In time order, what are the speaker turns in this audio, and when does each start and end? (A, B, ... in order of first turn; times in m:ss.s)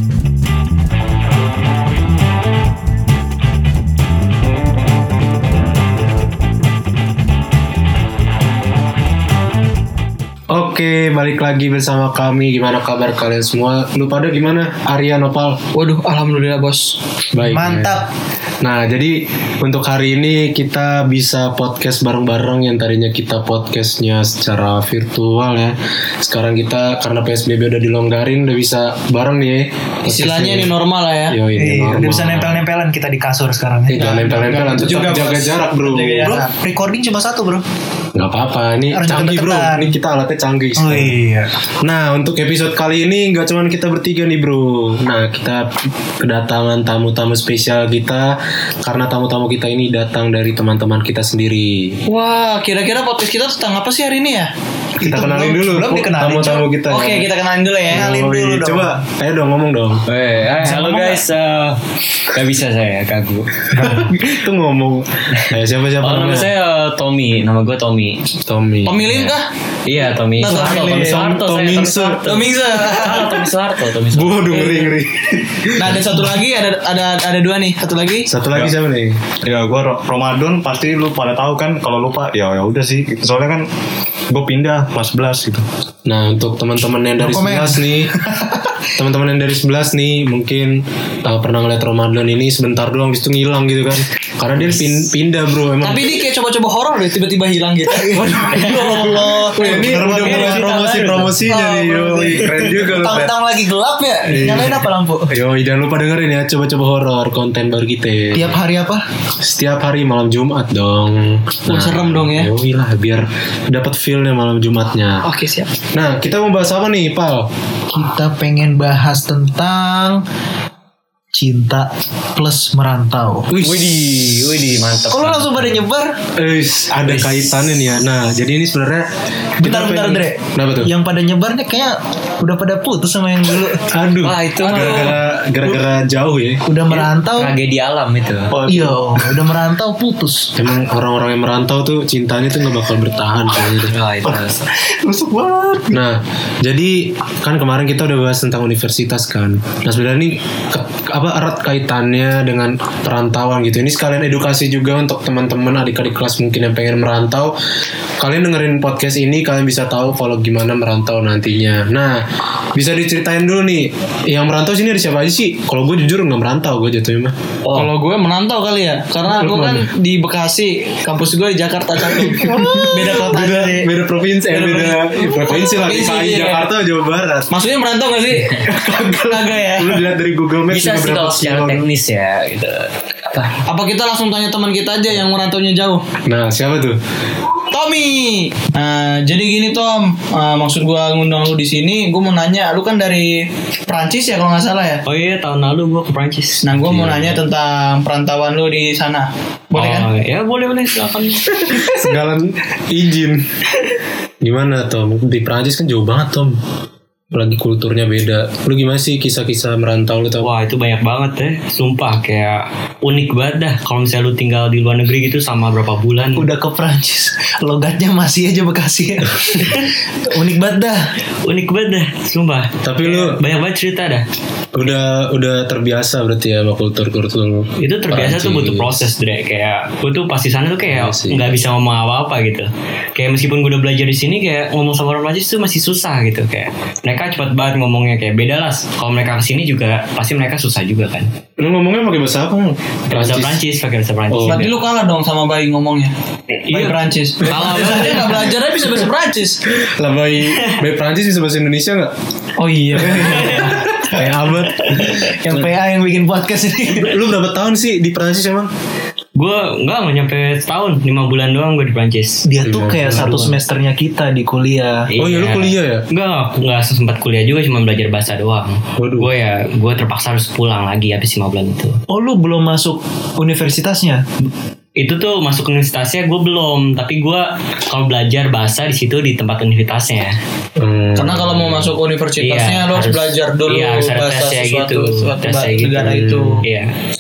0:10.5-0:15.6 A
0:15.7-0:17.0 B
0:17.3-0:18.0 A
0:17.4-0:18.1 C
0:18.6-0:30.7 A
0:30.1-0:31.4 B
0:31.3-0:32.6 A
0:31.6-0:35.4 C
0:33.9-0:36.4 A
0:34.0-0:36.5 B
0:36.2-0:37.6 C
0:38.2-0:41.1 A
0:38.9-0:39.9 C
0:40.8-0:41.6 C
0:41.8-0:52.0 A
0:52.1-0:54.5 B
0:55.0-0:56.7 C
0:55.0-0:57.3 A
0:56.9-0:58.1 B
0:57.9-0:59.0 C
0:57.9-1:00.0 A
1:00.1-1:04.0 D
1:00.5-1:01.2 C
1:03.7-1:04.1 C
1:03.8-1:06.5 A
1:05.5-1:08.2 D
1:08.4-1:09.4 A
1:08.8-1:09.5 B
1:09.9-1:14.9 D
1:10.4-1:11.2 B
1:10.4-1:12.3 A
1:12.2-1:13.5 B
1:14.1-1:16.3 A
1:14.6-1:14.8 B
1:15.8-1:18.3 B
1:18.3-1:19.2 A
1:19.4-1:23.7 E
1:24.3-1:25.6 E
1:26.1-1:28.1 A
1:27.2-1:28.8 C
1:29.0-1:36.1 A
1:35.8-1:39.5 B
1:37.9-1:40.4 C
1:39.6-1:43.3 A
1:39.6-1:41.4 D
1:41.5-1:42.6 B
1:42.8-1:45.3 C
1:44.3-1:48.6 A
1:48.3-1:49.0 C
1:49.4-1:55.3 A
1:51.7-1:52.5 B
1:55.3-1:55.6 D
1:55.9-1:57.5 A
1:57.9-2:00.2 C
2:01.3-2:03.5 C
2:03.5-2:03.9 A
2:03.6-2:05.8 D
2:05.1-2:06.2 C
2:06.4-2:10.9 A
2:07.1-2:07.5 C
2:09.6-2:13.8 C
2:13.9-2:16.6 A
2:14.2-2:15.2 D
2:16.7-2:17.6 C
2:16.9-2:18.6 D
2:18.6-2:20.5 C
2:20.6-2:24.0 A
2:23.8-2:24.7 D
2:25.1-2:25.8 E
2:25.9-2:37.6 A
2:38.2-2:47.4 A
2:47.6-2:47.9 D
2:47.7-2:53.9 B
2:49.3-2:49.9 A
2:52.0-2:57.5 A
2:52.6-2:52.9 C
2:54.5-2:56.7 B
2:57.5-2:58.7 B
2:58.6-3:01.8 A
2:59.3-3:00.1 B
3:00.7-3:03.5 D
3:03.6-3:06.0 B
3:06.3-3:07.0 A
3:07.7-3:15.0 B
3:15.1-3:16.6 D
3:16.6-3:20.1 B
3:16.7-3:17.4 A
3:19.8-3:21.8 D
3:21.7-3:23.4 A
3:24.4-3:26.6 A
3:27.3-3:30.5 A
3:30.4-3:36.5 D
3:36.4-3:41.1 C
3:39.6-3:39.9 D
3:41.4-3:44.2 D
3:42.8-3:43.4 A
3:44.7-3:49.1 A
3:47.8-4:01.3 D
3:50.8-3:51.5 A
4:01.6-4:03.6 A
4:03.1-4:04.8 D
4:04.3-4:04.7 A
4:04.5-4:06.1 B
4:06.6-4:08.5 D
4:06.7-4:09.6 B
4:07.4-4:09.1 A
4:09.7-4:12.1 A
4:10.5-4:10.8 D
4:12.6-4:14.3 C
4:13.0-4:13.6 A
4:13.0-4:13.9 D
4:14.1-4:15.7 A
4:14.8-4:15.2 D
4:14.9-4:17.2 C
4:17.0-4:18.7 A
4:19.4-4:22.5 D
4:22.4-4:25.1 C
4:22.6-4:23.5 A
4:23.1-4:23.5 D
4:25.1-4:32.0 D
4:25.2-4:26.0 A
4:29.0-4:29.3 A
4:32.1-4:34.2 C
4:35.0-4:40.4 D
4:40.8-4:42.0 A
4:41.2-4:46.7 B
4:42.4-4:46.9 D
4:46.0-4:46.7 A